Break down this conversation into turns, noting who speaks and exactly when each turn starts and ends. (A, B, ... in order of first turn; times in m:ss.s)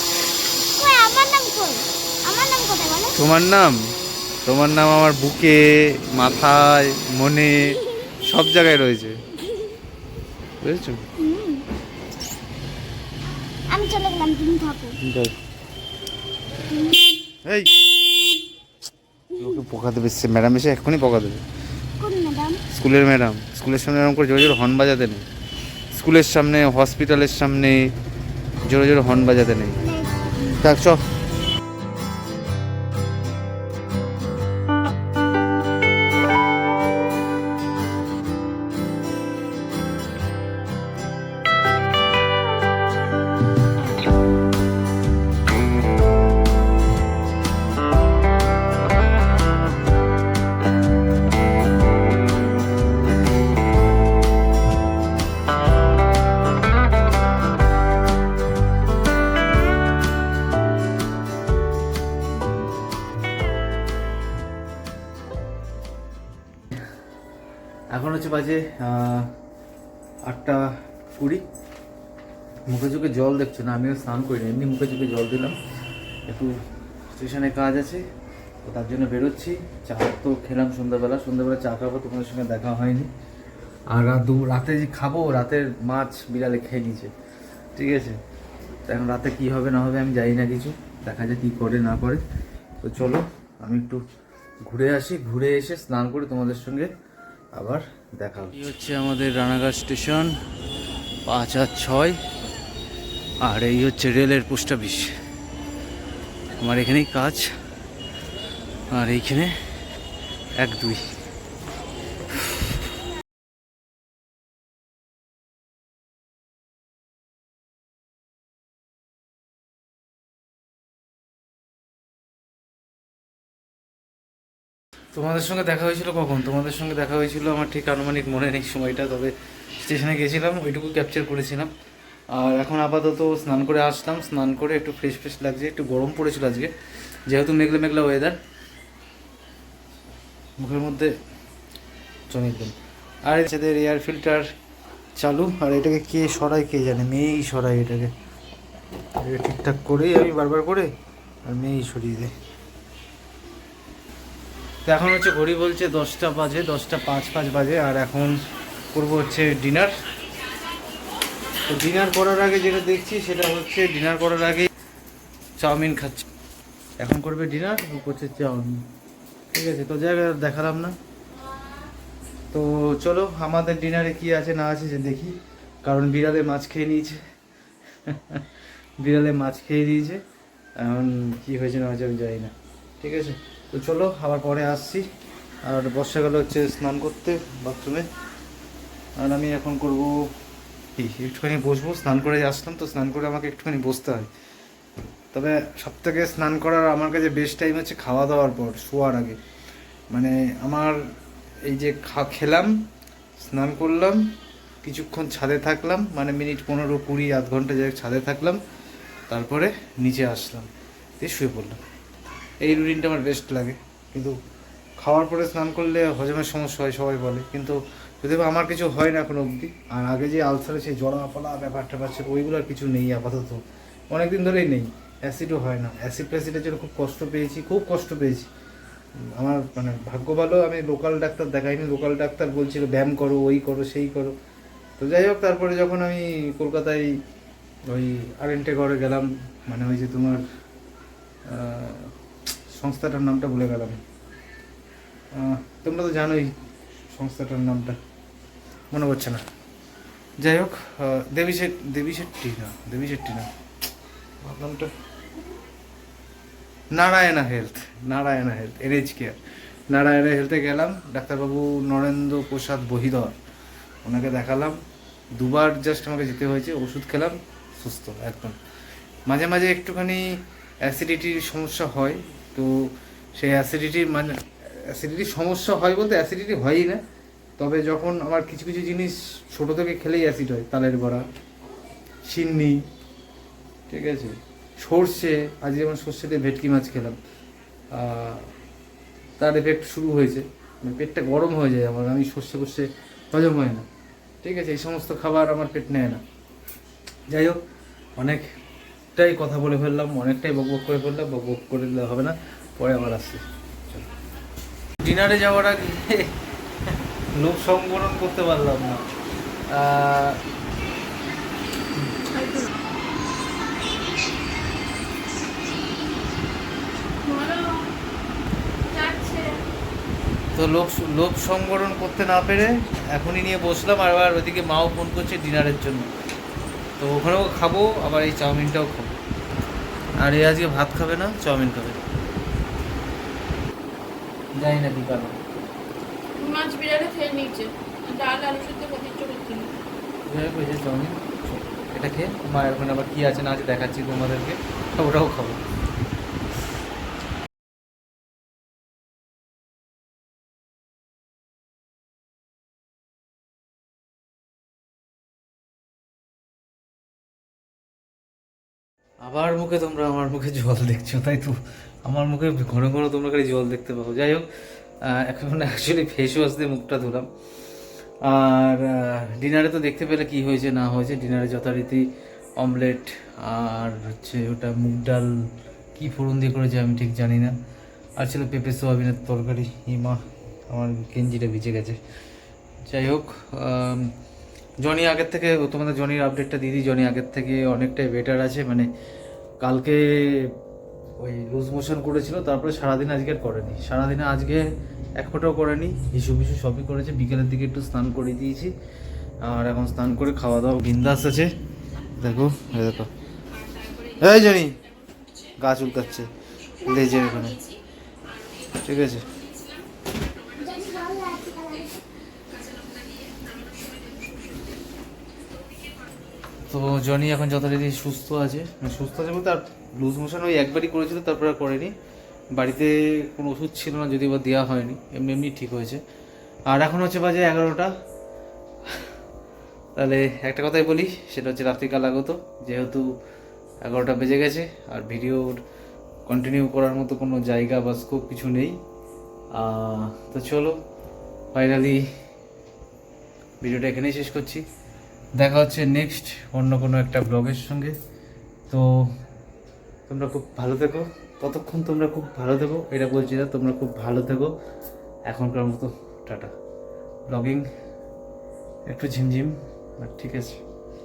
0:00.7-0:03.1 A
0:03.2-0:03.8 B
0:04.4-0:09.2 B
0:10.6-0:11.0 B
0:11.2-0:11.6 A
0:13.7-0:15.0 A
0:15.0-0:15.4 B
0:17.4-0:17.7 B
0:19.4-0:21.4 B
0:22.0-0:22.6 A
0:22.7-0:25.2 B
0:25.9-0:27.9 B
0:28.6-0:29.8 B
0:29.8-0:30.6 A
0:30.6-0:31.0 B
1:07.9-1:09.3 B
1:10.3-1:11.4 B
1:12.7-1:15.6 B
1:16.3-1:16.6 B
1:17.1-1:18.0 B
1:18.6-1:23.1 B
1:23.9-1:27.1 B
1:27.8-1:28.2 B
1:28.9-1:32.2 B
1:32.8-1:34.0 B
1:34.7-1:36.9 B
1:37.5-1:40.3 B
1:41.3-1:42.2 B
1:43.4-1:45.1 B
1:46.6-1:47.5 B
1:48.9-1:49.5 B
1:50.6-1:51.0 B
2:05.1-2:11.7 B
2:12.3-2:16.7 B
2:17.3-2:18.4 B
2:20.6-2:21.1 B
2:22.3-2:24.5 B
2:25.2-2:28.1 B
2:29.2-2:30.9 B
2:31.4-2:32.3 B
2:34.8-2:38.4 B
2:38.9-2:39.9 B
2:41.7-2:44.7 B
2:45.6-2:46.2 B
2:47.0-2:48.8 B
2:49.5-2:51.0 B
2:52.5-2:57.2 B
2:58.1-2:58.4 B
2:59.0-3:00.2 B
3:00.8-3:05.0 B
3:05.6-3:08.1 B
3:09.2-3:10.3 B
3:11.0-3:14.3 B
3:15.3-3:19.4 B
3:20.1-3:21.0 B
3:21.6-3:22.7 B
3:23.4-3:24.2 B
3:24.8-3:28.6 B
3:29.3-3:30.7 B
3:31.2-3:31.8 B
3:32.6-3:34.3 B
3:35.0-3:48.5 B
3:49.4-3:54.3 B
3:55.0-3:57.1 B
3:57.9-4:00.4 B
4:01.5-4:02.1 B
4:02.7-4:04.0 B
4:05.3-4:06.5 B
4:07.1-4:08.0 B
4:08.9-4:09.4 B
4:10.4-4:13.5 B
4:14.4-4:14.9 B
4:16.9-4:19.4 B
4:19.9-4:23.4 B
4:24.0-4:24.8 B
4:25.4-4:28.6 B
4:29.3-4:30.3 B
4:30.8-4:37.0 B
4:37.6-4:41.2 B
4:42.2-4:42.8 B
4:43.9-4:47.2 B
4:47.9-4:48.5 B
4:49.4-4:53.9 B
4:54.4-4:56.2 B
4:57.3-4:57.6 B
4:58.2-4:58.5 B
4:59.1-5:04.0 B
5:05.0-5:06.3 B
5:07.3-5:09.0 B
5:09.7-5:10.4 B
5:12.3-5:12.7 C
5:17.2-5:17.9 C
5:18.9-5:19.6 C
5:20.5-5:26.1 B
5:27.0-5:29.1 B
5:30.2-5:32.0 B
5:34.5-5:35.4 B
5:36.4-5:39.7 C
5:40.2-5:45.6 B
5:59.2-6:04.4 B
6:05.1-6:07.3 B
6:08.2-6:12.0 B
6:12.6-6:15.3 B
6:15.9-6:17.5 B
6:18.2-6:22.0 B
6:22.9-6:24.1 B
6:24.8-6:28.9 B
6:29.6-6:30.5 B
6:31.2-6:34.6 B
6:35.2-6:38.7 B
6:39.4-6:41.5 B
6:42.2-6:43.1 B
6:44.2-6:44.8 B
6:45.6-6:46.3 B
6:46.8-6:47.6 B
6:46.9-6:47.4 A
6:48.8-6:49.3 B
6:50.4-6:52.0 A
6:52.9-6:53.4 C
6:56.7-7:01.9 B
7:02.5-7:06.0 B
7:06.7-7:07.9 B
7:10.0-7:13.0 B
7:13.8-7:15.6 B
7:16.3-7:18.7 B
7:19.5-7:20.7 B
7:21.5-7:22.0 B
7:23.6-7:24.6 B
7:25.4-7:27.9 B
7:30.1-7:34.5 B
7:35.3-7:36.5 B
7:37.3-7:37.6 B
7:38.8-7:40.6 B